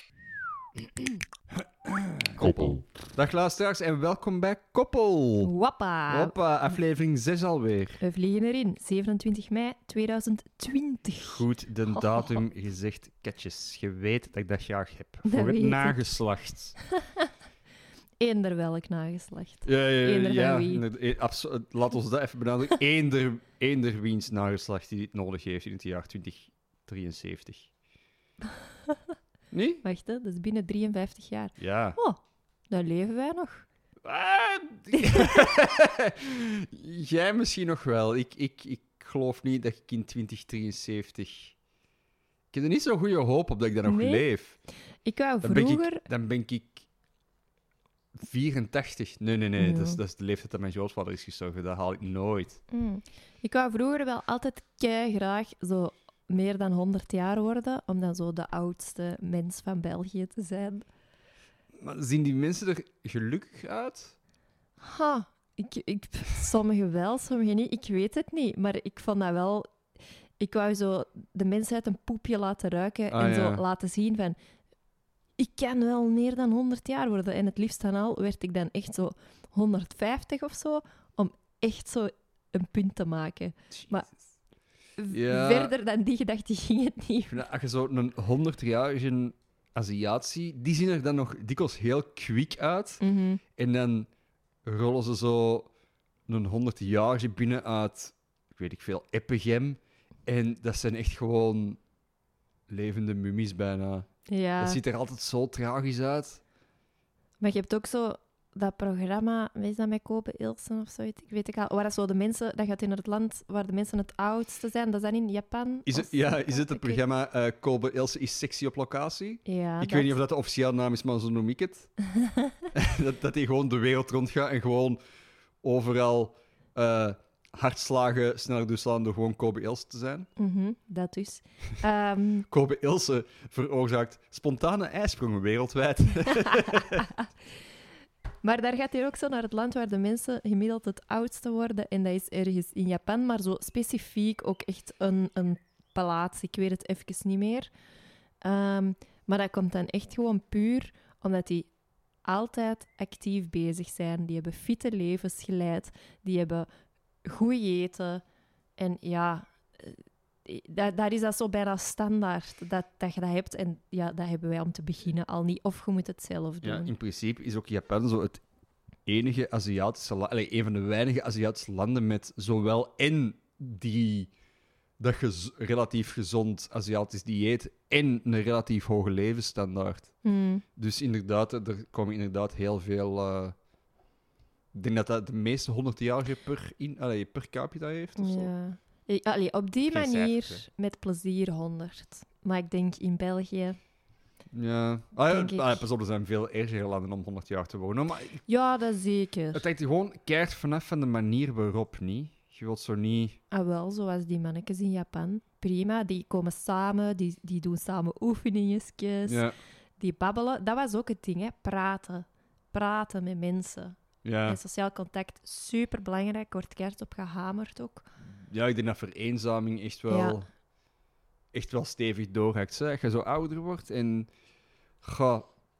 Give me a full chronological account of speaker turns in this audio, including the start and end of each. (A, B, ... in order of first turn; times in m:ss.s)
0:01.6-0:05.5 A
0:05.4-0:06.3 B
0:06.1-0:08.0 A
0:08.0-0:12.4 B
0:11.2-0:16.8 A
0:15.2-0:16.0 B
0:18.2-0:20.8 B
0:19.6-0:27.7 A
0:29.5-0:29.8 A
0:29.8-0:32.2 B
0:31.6-0:32.0 A
0:32.7-0:33.6 B
0:34.0-0:41.5 A
0:34.9-0:35.4 B
0:42.5-0:44.6 A
0:43.8-0:44.2 B
0:45.0-0:46.0 B
0:45.4-0:46.8 A
0:48.2-0:52.6 A
0:49.6-0:50.0 B
0:52.7-1:00.8 B
1:01.7-1:04.1 A
1:04.8-1:09.7 B
1:10.4-1:14.4 B
1:13.1-1:13.6 A
1:15.4-1:24.1 B
1:23.7-1:24.2 A
1:25.0-1:27.4 B
1:25.1-1:25.7 A
1:27.3-1:33.0 A
1:33.0-1:33.4 B
1:33.6-1:34.1 A
1:34.6-1:35.7 A
1:36.3-1:41.8 A
1:42.7-1:44.1 A
1:44.3-1:44.8 B
1:44.6-1:46.4 A
1:47.4-1:57.0 B
1:55.8-2:01.9 A
1:59.4-2:00.2 B
2:02.2-2:02.5 B
2:02.7-2:05.0 A
2:05.6-2:10.3 A
2:10.4-2:12.5 B
2:12.5-2:17.1 A
2:16.4-2:17.3 B
2:18.4-2:27.7 B
2:28.4-2:31.7 B
2:32.2-2:36.7 B
2:37.2-2:38.2 B
2:38.8-2:46.9 B
2:46.6-2:48.4 A
2:49.0-2:54.3 A
2:55.0-3:00.1 A
3:00.2-3:00.6 B
3:00.8-3:03.5 A
3:04.7-3:08.5 A
3:08.2-3:13.8 B
3:09.8-3:10.6 A
3:14.5-3:18.4 A
3:15.3-3:15.8 B
3:18.5-3:19.6 B
3:19.5-3:23.4 A
3:23.5-3:29.4 B
3:29.3-3:29.5 A
3:30.0-3:38.0 B
3:34.2-3:34.6 A
3:38.4-3:40.5 A
3:40.1-3:40.4 B
3:41.5-3:44.3 A
3:45.0-3:45.5 A